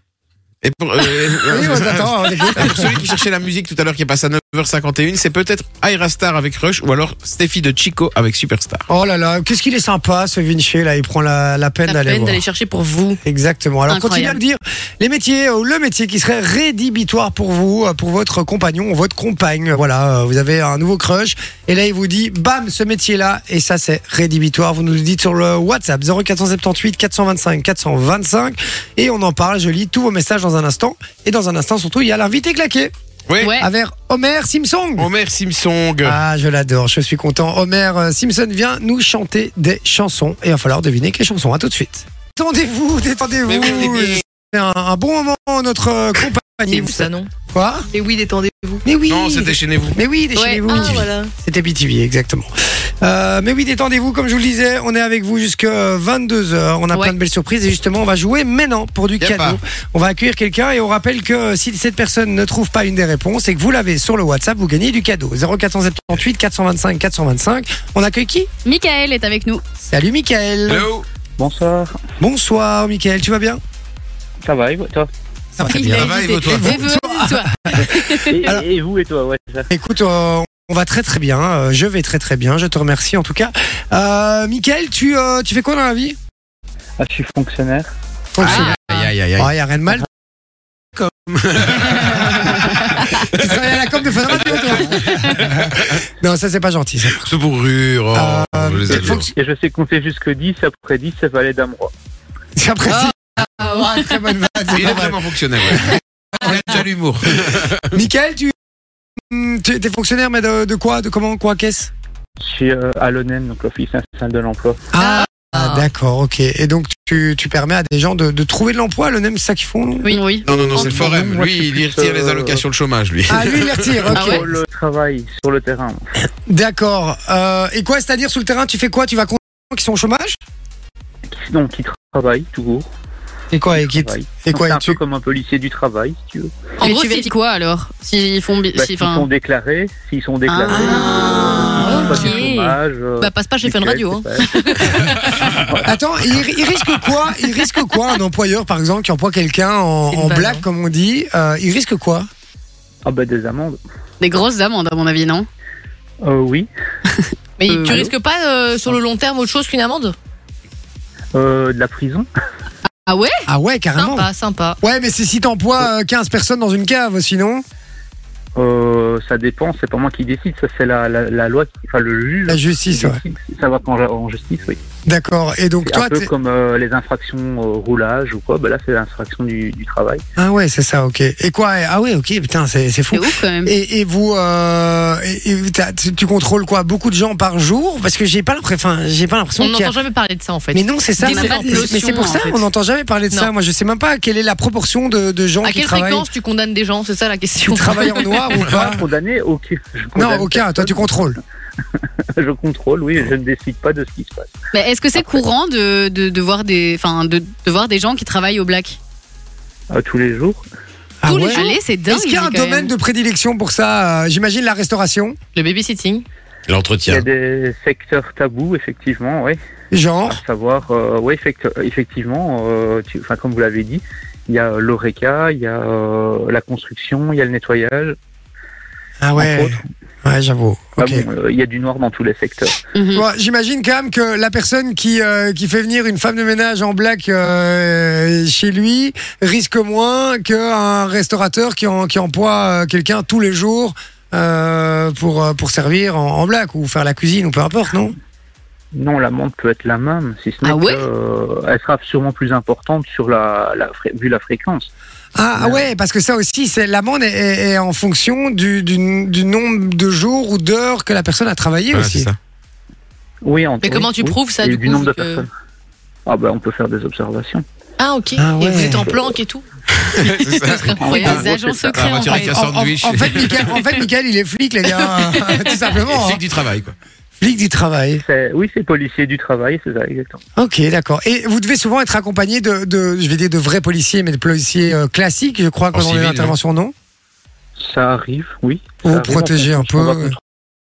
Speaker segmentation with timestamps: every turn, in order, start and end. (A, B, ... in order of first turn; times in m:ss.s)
0:00.6-0:08.8 A
0:01.5-0:03.0 B
0:08.9-0:12.4 B
0:11.8-0:13.2 C
0:13.2-0:32.9 B
0:13.9-0:14.4 D
0:33.3-0:33.5 A
0:33.4-0:33.7 D
0:33.5-0:35.1 B
0:35.0-0:36.2 A
0:36.0-0:47.9 B
0:43.5-0:44.2 A
0:46.7-0:47.3 C
0:47.9-0:48.8 C
0:48.8-1:08.5 B
0:49.1-0:50.0 A
0:50.4-0:50.8 D
0:50.6-0:51.3 C
0:59.2-0:59.6 A
1:08.6-1:09.6 D
1:09.8-1:10.9 B
1:10.7-1:11.0 A
1:11.4-1:12.0 E
1:12.2-1:13.6 B
1:14.4-1:15.1 E
1:15.5-1:18.6 B
1:15.6-1:18.3 D
1:15.9-1:16.8 A
1:18.3-1:19.7 E
1:19.7-1:26.2 B
1:27.0-1:27.9 E
1:28.3-1:28.8 B
1:28.4-1:29.5 A
1:29.4-1:30.0 B
1:31.0-1:35.7 A
1:33.3-1:37.3 B
1:37.2-1:39.3 A
1:38.1-1:39.3 B
1:38.9-1:41.9 E
1:42.6-1:46.8 B
1:44.7-1:47.9 A
1:47.9-1:48.5 B
1:49.2-1:51.9 B
1:52.4-1:54.8 E
1:54.9-2:01.2 B
1:55.0-1:55.8 C
2:00.0-2:00.4 D
2:00.4-2:04.1 A
2:00.7-2:02.6 E
2:00.8-2:01.0 C
2:03.3-2:04.5 B
2:04.1-2:06.1 E
2:04.1-2:04.4 D
2:06.5-2:10.4 B
2:11.3-2:12.9 E
2:13.5-2:15.0 B
2:13.8-2:16.6 E
2:16.8-2:17.3 C
2:16.8-2:19.2 D
2:18.8-2:25.9 E
2:20.5-2:22.7 D
2:20.8-2:21.8 B
2:21.2-2:22.5 C
2:23.2-2:25.3 C
2:25.8-2:32.3 B
2:30.1-2:30.6 C
2:33.0-2:33.8 E
2:34.2-2:35.5 D
2:36.2-2:36.7 E
2:37.6-2:40.1 C
2:37.7-2:38.0 D
2:41.3-2:42.3 E
2:43.0-2:43.4 D
2:43.5-2:44.3 B
2:44.0-2:44.8 C
2:44.8-2:47.6 B
2:48.6-2:54.8 E
2:52.5-2:53.2 B
2:55.0-2:56.3 B
2:55.8-3:00.2 E
3:00.4-3:10.0 B
3:03.1-3:03.7 D
3:09.6-3:12.4 C
3:10.7-3:16.2 B
3:11.2-3:12.6 D
3:15.6-3:18.4 C
3:17.6-3:19.0 B
3:18.6-3:21.2 E
3:20.1-3:21.4 B
3:22.4-3:24.5 E
3:24.7-3:29.0 D
3:29.9-3:30.6 E
3:31.2-3:35.4 B
3:31.2-3:32.9 D
3:31.4-3:31.8 C
3:35.5-3:36.2 C
3:36.7-3:37.2 A
3:37.1-3:39.6 E
3:39.9-3:40.4 B
3:40.3-3:48.2 E
3:49.2-3:51.2 B
3:49.4-3:49.8 E
3:51.0-3:52.8 E
3:52.9-3:53.2 D
3:53.1-4:08.1 B
4:08.9-4:14.9 E
4:10.6-4:11.0 D
4:15.3-4:22.3 B
4:15.6-4:15.8 E
4:21.9-4:22.4 A
4:23.4-4:25.5 E
4:23.8-4:25.4 C
4:26.3-4:27.6 E
4:28.0-4:29.6 C
4:28.4-4:29.1 B
4:30.1-4:33.8 A
4:30.5-4:31.4 C
4:31.0-4:32.1 E
4:31.1-4:32.5 D
4:32.3-4:36.4 B
4:36.0-4:36.9 A
4:37.4-4:38.2 B
4:38.2-4:40.4 E
4:40.6-4:46.9 B
4:45.9-4:46.5 A
4:47.8-4:50.4 E
4:49.0-4:50.3 B